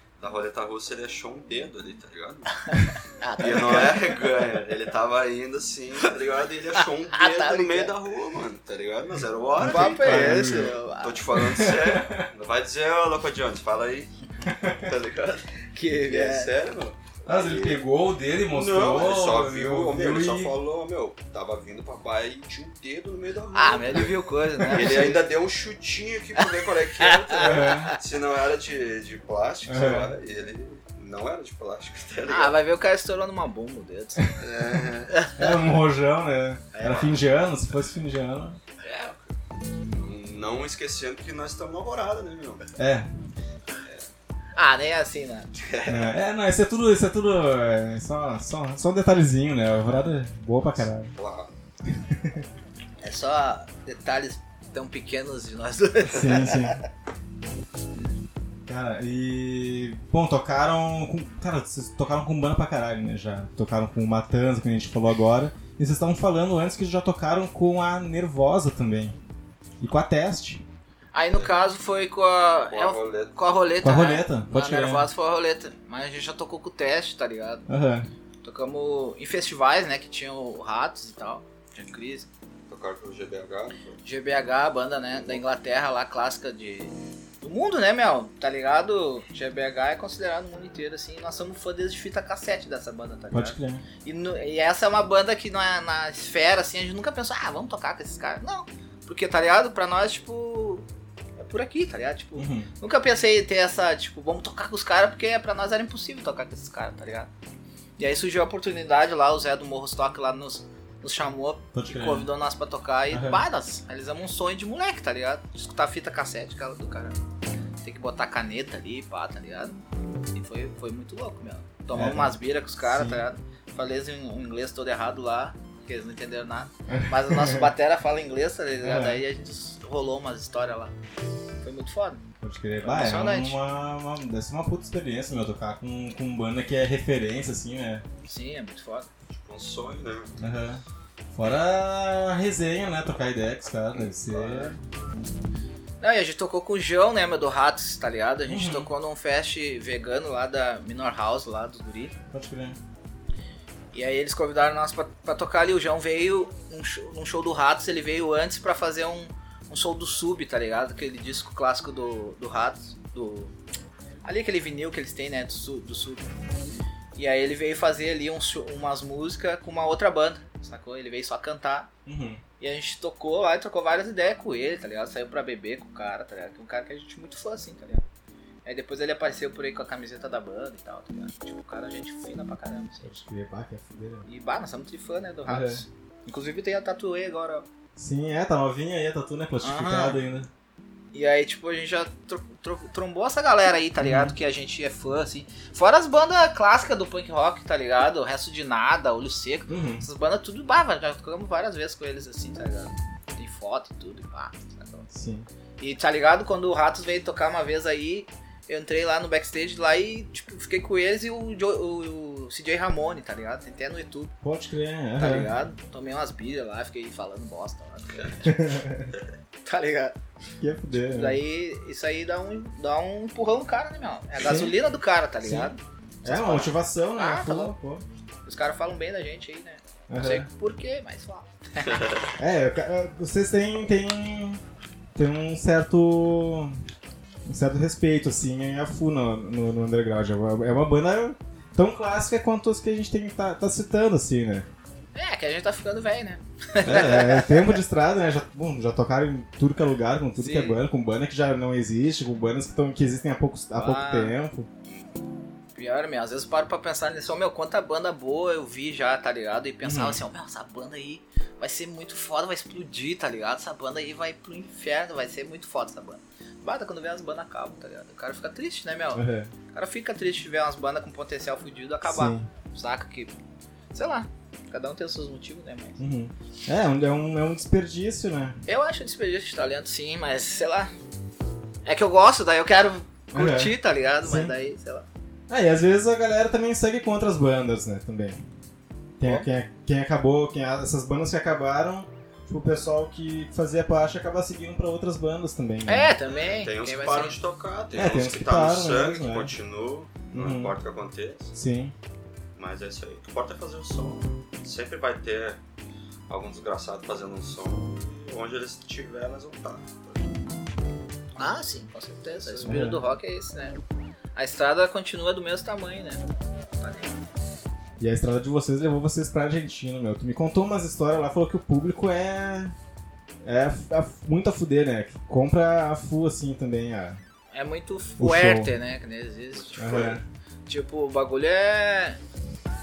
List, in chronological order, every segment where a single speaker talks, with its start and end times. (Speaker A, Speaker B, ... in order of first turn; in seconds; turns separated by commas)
Speaker A: 0.2-2.7, Speaker B: 2.6-4.2, Speaker A: 3.4-14.1, Speaker B: 7.1-7.9, Speaker C: 9.6-10.8, Speaker B: 9.6-11.3, Speaker C: 11.3-12.3, Speaker C: 14.4-14.8, Speaker A: 14.7-15.5, Speaker B: 15.7-16.5, Speaker A: 16.0-17.8, Speaker C: 17.2-20.5, Speaker A: 18.5-32.6, Speaker B: 23.5-25.2, Speaker C: 24.6-25.1, Speaker B: 26.4-28.0, Speaker C: 27.4-27.9, Speaker C: 29.7-30.1, Speaker B: 32.3-34.4, Speaker A: 34.4-35.2, Speaker B: 35.1-35.5, Speaker C: 35.4-38.6, Speaker B: 36.7-37.2, Speaker A: 38.8-39.1, Speaker A: 39.9-42.6, Speaker C: 42.8-43.1, Speaker B: 44.5-45.5, Speaker A: 45.5-46.1, Speaker C: 45.9-51.1, Speaker A: 51.1-51.5, Speaker C: 51.9-52.5, Speaker B: 53.0-56.8, Speaker C: 56.0-56.8, Speaker C: 58.7-69.2, Speaker C: 69.8-70.6, Speaker B: 71.1-77.7, Speaker A: 72.7-73.4, Speaker C: 73.8-75.1, Speaker C: 77.7-78.1, Speaker B: 78.4-82.3, Speaker A: 82.7-84.0, Speaker B: 84.0-100.8, Speaker A: 85.1-85.4, Speaker C: 93.3-93.8, Speaker B: 101.4-107.3, Speaker C: 102.3-102.7, Speaker B: 108.0-117.2, Speaker C: 111.7-112.3, Speaker C: 113.1-113.4, Speaker B: 117.8-119.8, Speaker B: 120.3-130.9, Speaker C: 121.9-123.2, Speaker C: 126.9-127.7, Speaker C: 128.8-129.2, Speaker B: 131.6-132.2, Speaker C: 132.4-138.0, Speaker B: 132.8-133.6, Speaker B: 138.2-139.1, Speaker A: 139.3-140.3, Speaker C: 140.4-140.8, Speaker C: 141.3-144.8, Speaker A: 143.9-144.7, Speaker B: 146.0-152.1, Speaker C: 148.4-148.9, Speaker C: 152.3-152.8, Speaker B: 153.9-163.5, Speaker B: 164.2-166.2, Speaker B: 167.2-171.9, Speaker C: 172.1-172.4, Speaker B: 172.6-178.0, Speaker B: 178.6-183.2, Speaker C: 183.0-184.2, Speaker B: 184.2-187.7, Speaker C: 185.4-185.8, Speaker C: 187.9-190.5, Speaker B: 189.6-190.2, Speaker B: 191.1-205.1, Speaker C: 194.0-194.3, Speaker C: 199.7-200.1, Speaker C: 205.1-205.5, Speaker B: 205.8-214.3, Speaker C: 214.4-215.5, Speaker B: 215.2-218.5, Speaker C: 218.4-219.1, Speaker B: 219.6-220.2, Speaker C: 220.6-221.4, Speaker B: 220.9-227.7, Speaker C: 224.4-224.8, Speaker C: 225.4-225.7, Speaker C: 226.2-228.0, Speaker B: 228.4-232.1, Speaker C: 230.1-230.5, Speaker A: 231.8-232.3, Speaker C: 232.4-234.6, Speaker C: 235.1-236.8, Speaker C: 237.4-244.7, Speaker B: 245.1-247.8, Speaker C: 246.8-254.7, Speaker B: 250.3-250.8, Speaker B: 253.7-254.3, Speaker A: 254.9-255.1, Speaker B: 255.8-273.3, Speaker C: 259.8-260.2, Speaker C: 269.1-269.5, Speaker C: 272.0-272.5, Speaker B: 273.9-276.0, Speaker C: 276.0-278.6, Speaker B: 278.6-280.9, Speaker B: 281.8-285.1, Speaker C: 283.3-284.5, Speaker C: 285.5-288.4, Speaker C: 289.2-296.1, Speaker B: 295.9-297.4, Speaker A: 296.3-301.5, Speaker C: 297.9-299.5, Speaker C: 300.3-300.8, Speaker C: 301.5-301.9, Speaker A: 302.5-305.6, Speaker A: 306.3-310.4, Speaker B: 311.4-313.8, Speaker A: 312.4-312.8, Speaker C: 312.6-313.0, Speaker B: 314.3-316.2, Speaker B: 316.8-317.1, Speaker C: 318.0-322.7, Speaker C: 323.4-327.2, Speaker B: 327.5-330.1, Speaker C: 328.2-328.7, Speaker A: 329.5-330.2, Speaker C: 329.8-330.2, Speaker B: 330.6-332.2